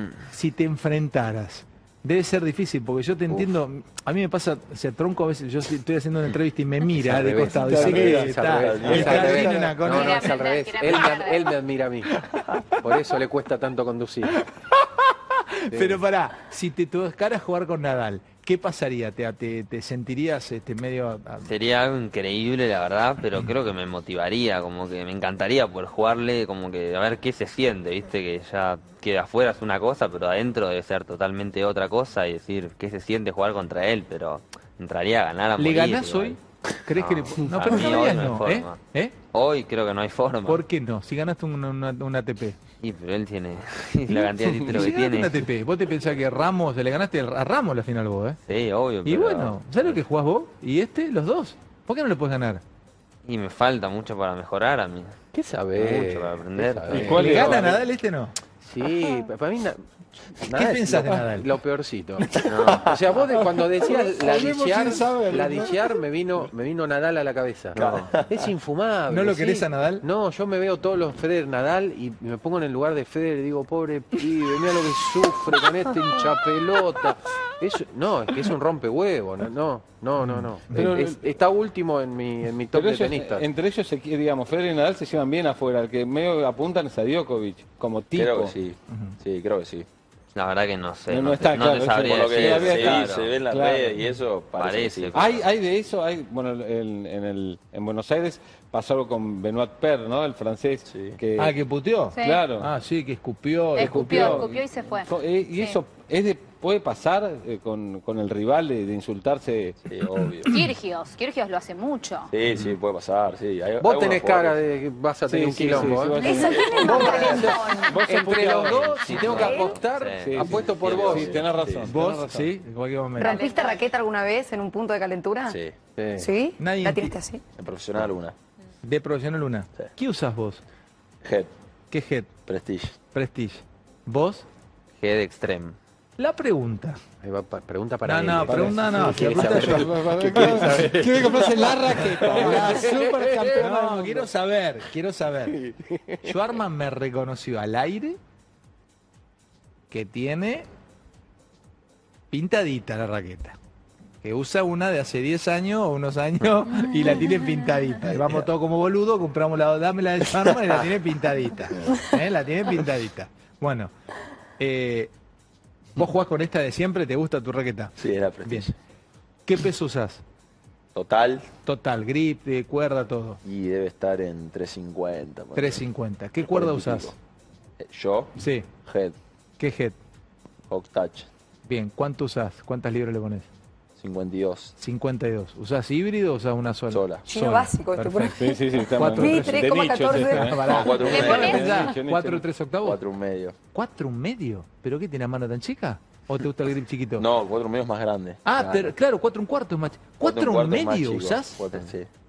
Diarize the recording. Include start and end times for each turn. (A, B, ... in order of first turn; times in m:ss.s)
0:00.3-0:10.4 A
0:07.0-0:14.4 B
0:07.6-0:09.5 C
0:08.6-0:09.4 D
0:09.8-0:11.6 E
0:12.4-0:12.7 A
0:14.3-0:21.5 A
0:15.7-0:16.0 B
0:21.4-0:36.4 F
0:35.6-0:39.2 A
0:36.9-0:38.8 F
0:39.3-0:40.6 F
0:40.5-0:42.6 A
0:42.8-0:45.5 F
0:44.2-0:48.4 A
0:48.5-0:50.0 F
0:49.0-0:52.6 A
0:53.3-0:55.2 F
0:55.3-0:57.8 B
0:55.8-0:57.4 F
0:56.9-0:57.8 C
0:57.1-0:58.4 A
0:58.6-1:23.5 B
1:00.5-1:01.5 A
1:02.4-1:03.0 F
1:02.4-1:03.0 D
1:03.3-1:06.0 C
1:07.8-1:08.1 F
1:07.8-1:08.5 D
1:09.1-1:10.0 A
1:20.2-1:20.9 A
1:20.7-1:21.3 C
1:22.7-1:28.5 C
1:28.1-1:29.9 D
1:28.9-1:29.2 A
1:30.4-1:33.3 F
1:31.1-1:34.0 C
1:32.0-1:35.4 D
1:34.6-1:35.4 F
1:35.1-1:41.6 C
1:40.9-1:41.2 D
1:41.4-1:44.5 A
1:42.1-1:42.4 E
1:42.2-1:42.7 C
1:43.8-1:45.8 E
1:43.8-1:49.8 C
1:49.8-1:50.6 D
1:50.2-1:50.7 A
1:50.5-1:52.3 E
1:52.3-1:54.6 D
1:53.8-1:56.2 B
1:55.3-1:58.9 C
1:56.2-1:58.0 G
1:56.2-1:56.7 E
1:56.3-1:57.0 D
1:56.8-2:01.4 B
1:58.0-1:59.7 A
1:58.7-2:00.6 F
1:59.3-1:59.7 G
2:00.2-2:02.5 C
2:00.4-2:01.9 D
2:01.9-2:03.4 A
2:03.2-2:03.8 E
2:03.2-2:05.6 G
2:05.5-2:05.8 D
2:06.0-2:06.3 B
2:06.2-2:07.4 G
2:06.6-2:07.2 A
2:07.6-2:08.4 D
2:08.8-2:10.6 A
2:11.2-2:11.5 D
2:11.9-2:12.3 A
2:12.5-2:13.0 D
2:13.1-2:14.5 A
2:15.0-2:15.8 F
2:16.2-2:17.0 A
2:17.2-2:21.7 B
2:18.0-2:20.9 A
2:18.5-2:24.3 C
2:21.3-2:21.6 D
2:21.9-2:25.7 A
2:22.5-2:23.5 B
2:26.2-2:28.2 A
2:29.9-2:30.7 A
2:32.3-2:33.6 A
2:34.2-2:43.9 A
2:38.0-2:38.4 D
2:44.6-2:45.1 A
2:46.0-2:48.7 A
2:48.0-2:48.8 D
2:49.5-2:50.2 A
2:51.0-2:51.5 D
2:51.7-2:53.4 A
2:53.4-2:55.8 D
2:55.6-2:57.1 A
2:56.4-2:57.2 D
2:57.8-2:59.2 D
2:58.4-2:58.7 A
2:59.6-3:00.0 A
3:00.7-3:01.3 D
3:01.7-3:03.5 A
3:04.0-3:04.8 D
3:04.8-3:13.0 A
3:06.9-3:07.2 D
3:07.3-3:10.7 G
3:08.3-3:12.5 C
3:10.6-3:11.6 D
3:11.0-3:11.9 E
3:12.8-3:13.6 D
3:13.7-3:17.3 A
3:17.2-3:18.9 D
3:18.4-3:21.7 A
3:20.2-3:22.1 D